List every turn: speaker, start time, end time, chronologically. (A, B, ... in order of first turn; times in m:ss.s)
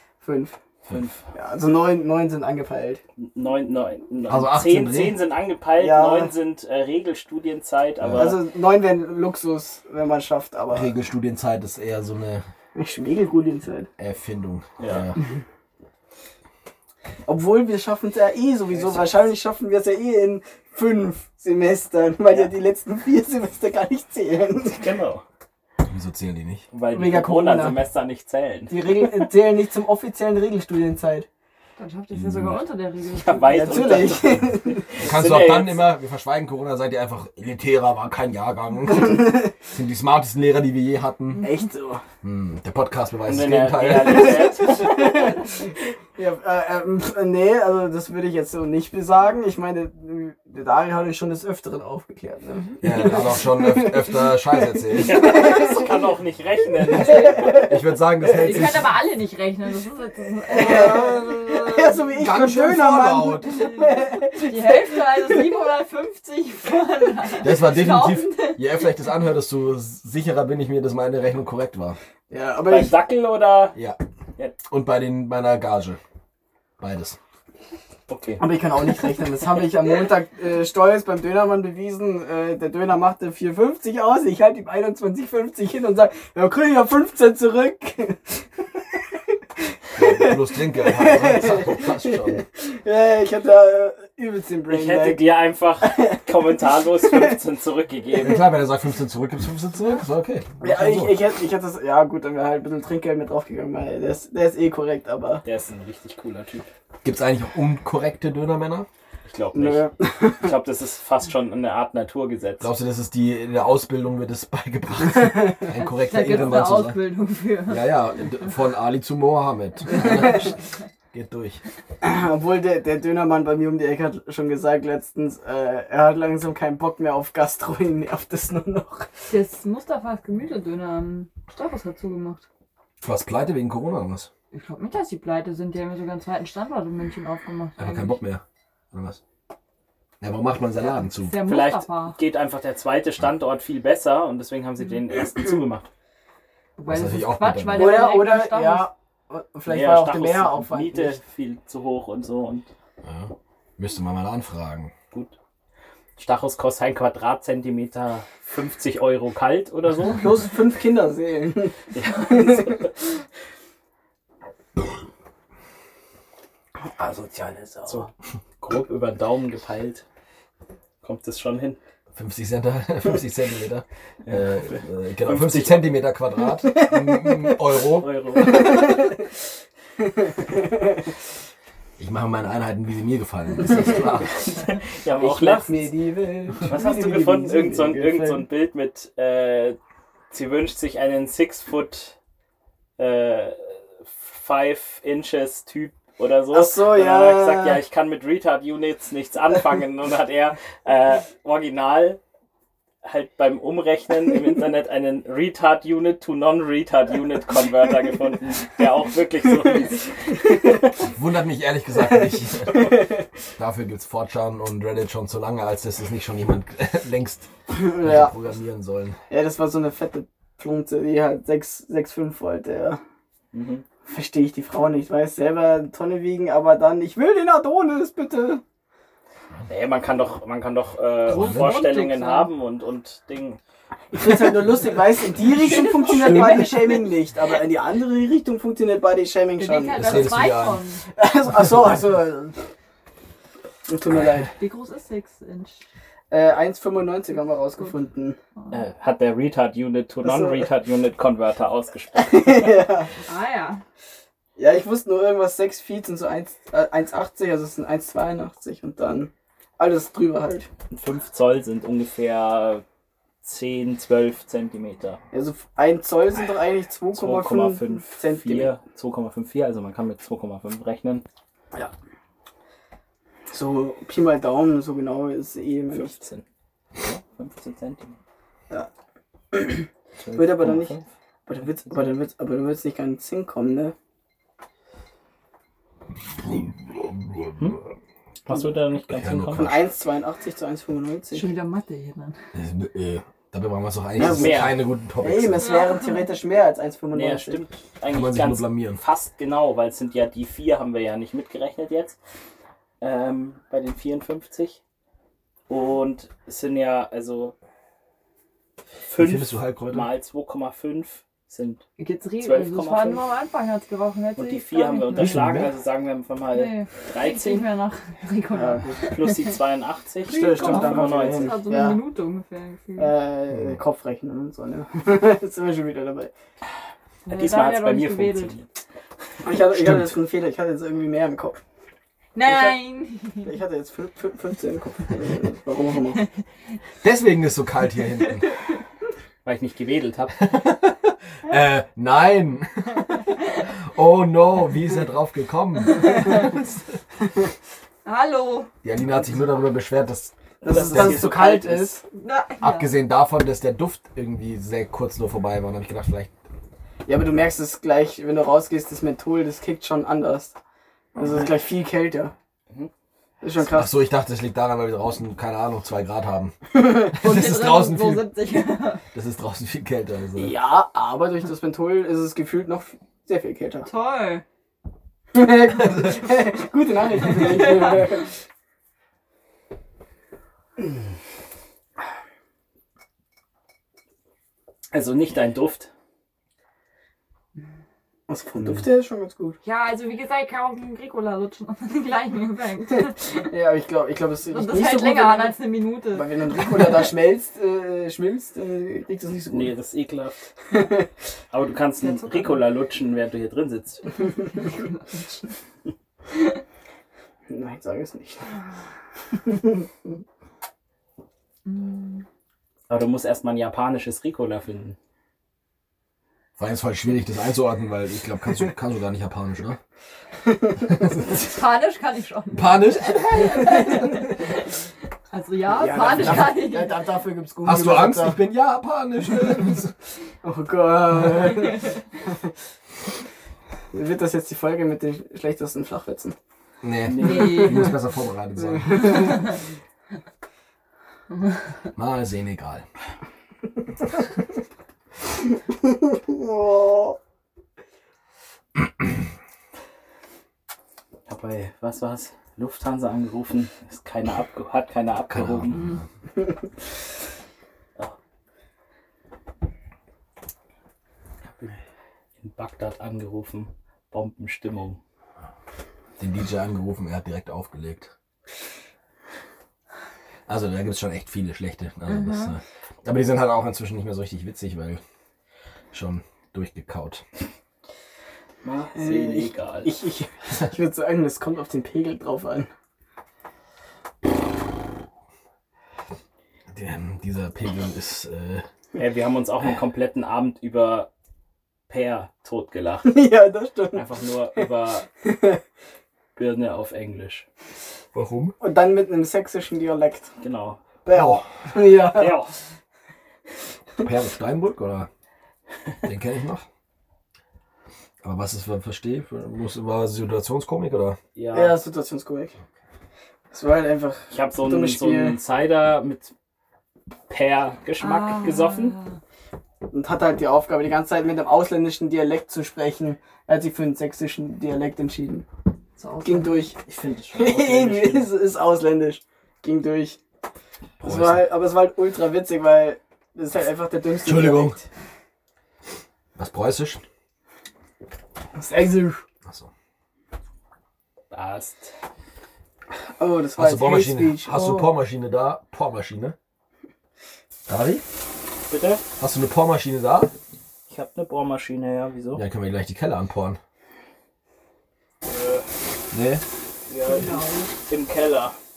0:00.2-0:00.6 A
0:00.9-0:01.2 B
0:01.3-0:03.0 A
0:03.2-0:08.4 B
0:04.3-0:05.2 C
0:05.8-0:06.3 A
0:08.0-0:08.4 C
0:08.2-0:10.9 A
0:10.7-0:12.5 C
0:12.8-0:13.9 A
0:14.0-0:15.2 C
0:14.8-0:15.1 B
0:17.3-0:24.8 A
0:18.7-0:19.3 B
0:22.3-0:22.6 B
0:24.6-0:25.2 B
0:25.9-0:26.7 C
0:26.7-0:29.2 B
0:26.9-0:27.8 A
0:28.7-0:31.3 A
0:31.8-0:34.1 D
0:32.1-0:32.6 C
0:33.1-0:35.8 B
0:33.5-0:34.9 A
0:35.0-0:41.5 C
0:39.1-0:39.5 A
0:41.4-0:42.0 A
0:42.2-0:44.5 C
0:43.2-0:45.4 B
0:44.0-0:55.9 A
0:52.8-0:55.4 C
0:54.9-0:57.6 B
0:57.0-0:57.6 D
0:57.1-0:57.7 A
0:57.5-0:59.0 C
0:58.2-1:02.0 D
1:00.5-1:05.6 A
1:02.2-1:03.7 C
1:03.5-1:08.6 D
1:07.4-1:12.0 C
1:12.3-1:13.0 A
1:12.6-1:13.8 B
1:14.7-1:16.0 C
1:16.8-1:17.2 C
1:18.1-1:18.5 B
1:18.4-1:29.1 A
1:30.0-1:32.4 C
1:30.0-1:37.3 A
1:34.7-1:38.4 B
1:38.2-1:41.2 C
1:40.6-1:45.4 A
1:45.4-1:46.7 B
1:47.0-1:48.9 C
1:49.3-1:52.7 B
1:49.5-1:50.5 A
1:52.6-1:57.0 C
1:55.8-1:57.9 D
1:57.7-2:00.5 C
2:01.1-2:01.6 C
2:02.0-2:09.1 A
2:09.3-2:12.4 D
2:13.0-2:14.3 C
2:14.5-2:18.2 D
2:17.8-2:18.4 C
2:18.9-2:19.2 C
2:20.2-2:21.4 C
2:21.1-2:22.2 D
2:21.4-2:25.9 B
2:26.8-2:28.9 D
2:26.9-2:28.1 C
2:27.7-2:31.2 A
2:29.7-2:32.7 B
2:33.0-2:34.9 C
2:36.2-2:40.3 B
2:40.1-2:41.8 A
2:41.9-2:42.9 B
2:42.3-2:42.9 A
2:46.8-2:48.0 A
2:48.6-2:50.0 B
2:51.0-2:51.8 B
2:52.2-2:58.1 C
2:54.2-2:56.0 B
2:57.1-2:57.5 A
2:58.0-2:59.0 B
2:58.4-2:59.1 A
3:00.0-3:00.6 A
3:02.0-3:04.4 C
3:04.5-3:05.9 B
3:05.2-3:08.5 A
3:06.6-3:09.8 B
3:10.3-3:12.2 B
3:13.0-3:22.2 B
3:16.5-3:17.8 A
3:23.0-3:30.9 B
3:31.1-3:33.1 C
3:32.1-3:33.2 A
3:33.6-3:39.2 C
3:37.7-3:38.3 A
3:39.3-3:43.0 A
3:43.5-3:43.8 B
3:44.1-3:48.6 A
3:49.7-3:53.6 B
3:51.3-3:52.5 D
3:51.3-3:51.7 C
3:54.1-4:00.4 A
3:55.7-3:57.1 D
3:56.2-3:56.8 C
3:59.6-4:01.0 D
4:00.0-4:00.8 C
4:01.2-4:02.6 A
4:03.9-4:04.5 A
4:04.6-4:05.8 D
4:06.3-4:08.4 A
4:08.7-4:12.7 B
4:10.2-4:10.7 A
4:12.2-4:13.1 A
4:13.3-4:13.8 D
4:14.6-4:20.7 A
4:20.9-4:22.8 B
4:23.4-4:25.2 B
4:25.3-4:28.7 A
4:27.1-4:31.2 B
4:33.5-4:36.2 A
4:35.9-4:36.4 B
4:37.0-4:38.2 B
4:39.5-4:43.9 A
4:40.2-4:41.0 B
4:46.4-4:47.6 C
4:48.4-4:49.7 B
4:49.1-4:49.8 C
4:49.5-4:51.5 A
4:51.3-4:52.4 D
4:52.5-4:55.8 C
4:54.2-4:57.6 A
4:54.2-4:54.8 B
4:55.6-4:56.2 D
4:57.1-5:02.2 B
4:58.1-4:59.0 C
5:03.0-5:04.8 B
5:05.7-5:07.5 B
5:09.1-5:11.8 B
5:09.2-5:10.1 C
5:12.0-5:15.5 D
5:12.4-5:13.2 B
5:14.4-5:17.7 B
5:15.2-5:15.7 C
5:16.5-5:19.5 D
5:18.5-5:19.1 A
5:19.0-5:21.6 B
5:20.2-5:23.1 D
5:20.3-5:22.0 A
5:23.0-5:26.3 A
5:23.5-5:23.8 C
5:27.3-5:28.5 D
5:27.3-5:28.7 B
5:29.4-5:31.6 A
5:29.7-5:30.1 C
5:32.4-5:33.5 D
5:32.4-5:32.8 A
5:33.4-5:36.2 A
5:37.0-5:38.6 C
5:39.4-5:40.3 B
5:40.4-5:46.8 C
5:48.0-5:48.7 D
5:48.8-5:51.3 C
5:50.6-5:52.0 A
5:50.7-5:52.0 B
5:52.1-5:52.9 D
5:52.6-5:56.3 C
5:57.1-6:00.6 A
6:01.2-6:02.3 A
6:03.4-6:03.9 A
6:03.6-6:08.4 C
6:06.8-6:07.2 A
6:07.1-6:09.0 D
6:09.1-6:10.5 C
6:10.4-6:13.9 A
6:13.8-6:14.4 D
6:15.3-6:18.3 A
6:24.9-6:25.9 B
6:28.3-6:29.6 A
6:29.6-6:33.3 D
6:33.4-6:39.8 A
6:34.5-6:37.0 D
6:39.5-6:40.5 B
6:40.7-6:41.0 A
6:41.5-6:44.3 B
6:42.0-6:42.5 D
6:44.6-6:44.9 D
6:47.5-6:48.5 A
6:49.3-6:49.8 A
6:51.7-6:52.2 D
6:52.9-6:55.0 B
6:56.6-6:59.8 C
7:00.9-7:01.3 C
7:01.3-7:04.7 D
7:02.5-7:04.1 C
7:05.3-7:07.0 D
7:05.7-7:08.4 A
7:07.6-7:09.9 C
7:10.4-7:12.4 A
7:13.9-7:16.4 A
7:16.8-7:19.3 C
7:17.1-7:17.7 B
7:17.2-7:17.9 D
7:18.6-7:19.5 A
7:22.0-7:22.9 C
7:25.8-7:27.2 A
7:31.3-7:35.8 B
7:35.3-7:36.0 C
7:35.7-7:36.0 D
7:41.4-7:41.8 B
7:42.4-7:45.0 B
7:46.2-7:48.1 C
7:50.5-7:55.0 C
7:52.1-7:52.5 D
7:55.9-7:57.2 C
7:58.6-8:00.0 B
7:59.0-8:02.7 A
8:06.7-8:08.7 C
8:09.0-8:11.1 B
8:11.9-8:13.1 B
8:13.0-8:14.0 A
8:13.9-8:15.1 B
8:15.2-8:15.6 A
8:16.4-8:17.5 B
8:18.1-8:18.6 C
8:18.6-8:20.3 A
8:20.4-8:20.8 B
8:21.0-8:22.4 A
8:21.1-8:21.4 C
8:22.1-8:22.5 B
8:24.0-8:25.1 C
8:26.0-8:26.7 C
8:28.2-8:31.2 C
8:31.4-8:31.8 B
8:31.5-8:32.5 A
8:33.5-8:35.4 A
8:34.3-8:36.3 B
8:37.3-8:39.0 B
8:38.0-8:39.2 D
8:39.9-8:45.4 A
8:46.0-8:46.6 D
8:46.2-8:46.8 A
8:46.8-8:48.3 B
8:47.3-8:50.2 A
8:51.0-8:51.4 C
8:51.0-8:54.8 A
8:54.2-8:54.8 C
8:56.4-8:57.0 C
8:58.5-8:59.2 A
9:01.3-9:01.9 B
9:03.2-9:05.0 A
9:03.6-9:06.4 C
9:07.7-9:08.0 C
9:08.7-9:09.0 B
9:09.2-9:10.3 C
9:10.9-9:12.4 B
9:12.4-9:13.6 C
9:15.2-9:15.7 B
9:16.1-9:16.4 C
9:16.9-9:18.6 B
9:17.1-9:17.7 D